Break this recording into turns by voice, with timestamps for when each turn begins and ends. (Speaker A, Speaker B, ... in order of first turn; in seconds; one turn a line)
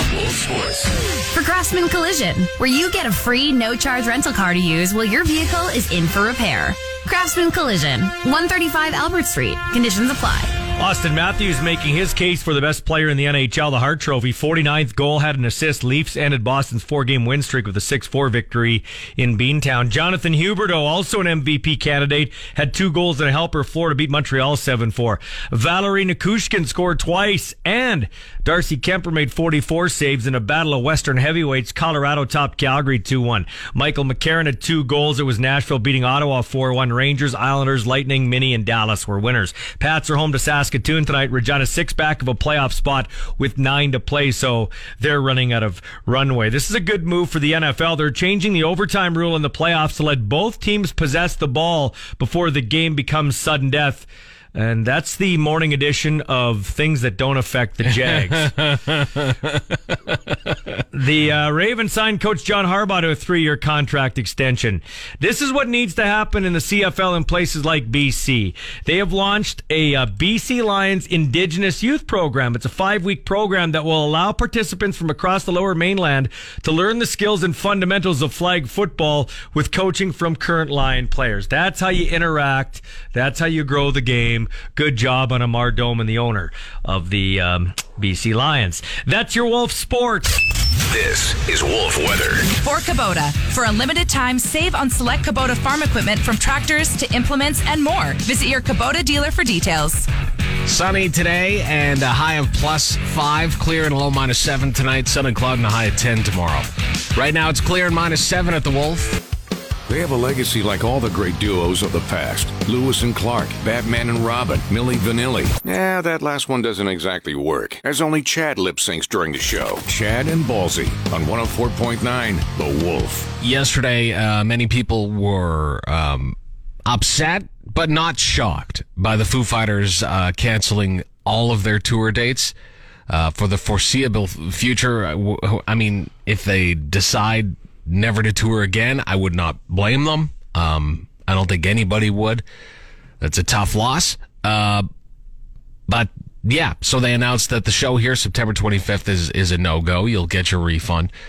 Speaker A: 0.3-0.8
Speaker B: 1.3-10.5
Speaker C: 10.8-58.6
Speaker D: 58.0-59.8
Speaker C: 60.9-90.4
Speaker A: 90.8-92.6
Speaker E: 92.6-100.1
Speaker D: 100.6-109.2
Speaker A: 109.9-123.3
Speaker D: 123.4-132.5
Speaker D: 133.1-142.4
Speaker D: 143.2-144.8
Speaker D: 145.9-151.1